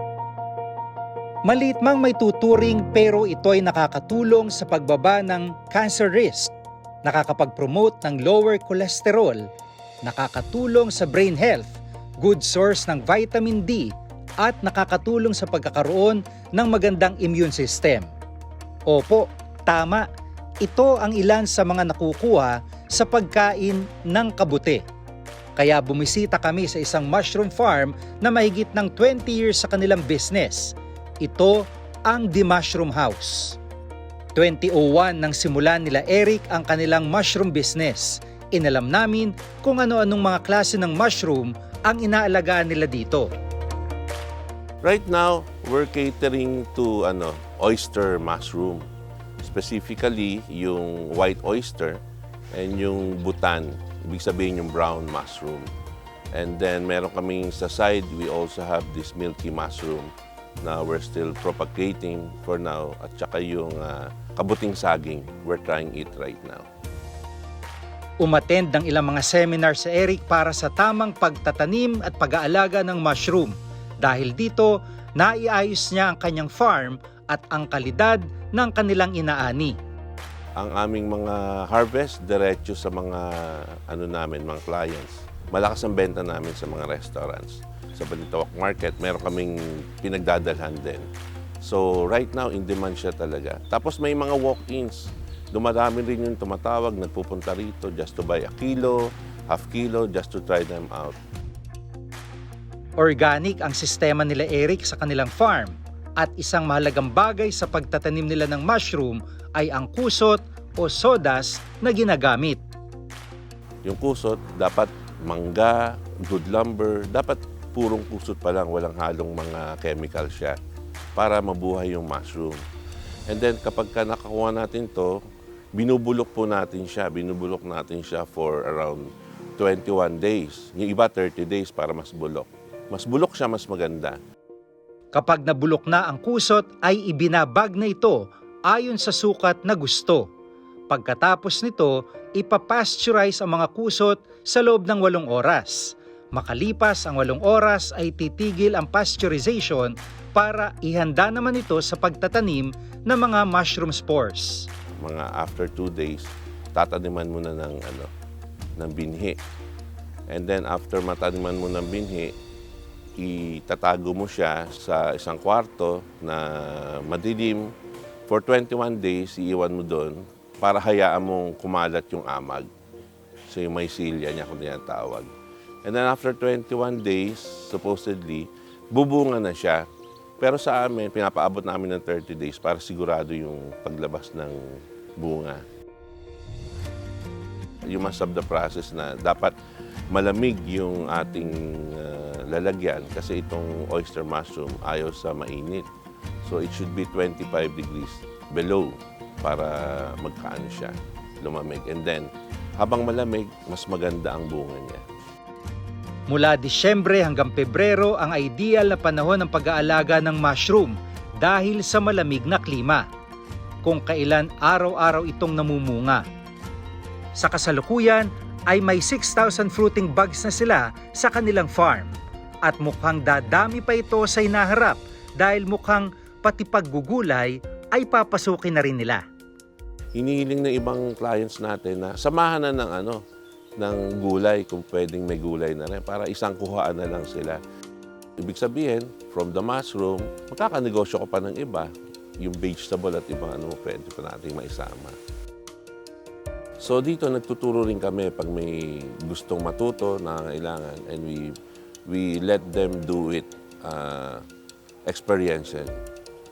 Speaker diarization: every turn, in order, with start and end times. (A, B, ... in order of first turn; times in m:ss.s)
0:01.4-0:06.5 A
0:07.0-0:09.4 A
0:10.0-0:18.1 A
0:18.9-0:20.0 A
0:20.6-0:24.8 A
0:25.6-0:33.6 A
0:34.3-0:43.3 A
0:44.8-0:48.9 B
0:49.4-0:52.0 B
0:52.5-0:55.7 B
0:56.3-1:00.1 B
1:00.6-1:06.6 B
1:08.2-1:19.8 A
1:20.6-1:31.1 B
1:31.6-1:41.1 B
1:43.0-1:52.6 A
1:53.8-2:00.6 B
2:01.2-2:02.6 B
2:03.3-2:05.2 B
2:05.7-2:09.1 B
2:09.6-2:14.2 B
2:15.1-2:20.2 A
2:20.9-2:34.7 A
2:35.0-2:38.1 B
2:38.8-2:39.4 B
2:40.3-2:42.3 B
2:43.2-2:47.7 B
2:48.3-2:52.7 B
2:53.5-2:55.3 B
2:55.8-2:59.8 B
3:00.4-3:05.6 B
3:07.8-3:09.5 B
3:10.1-3:15.9 B
3:16.4-3:25.0 B
3:26.3-3:33.0 A
3:33.8-3:36.2 A
3:37.4-3:42.1 A
3:42.6-3:49.2 A
3:50.2-3:53.2 B
3:53.8-3:57.6 B
3:58.4-4:05.2 B
4:06.8-4:11.5 B
4:12.1-4:14.4 B
4:15.1-4:16.0 B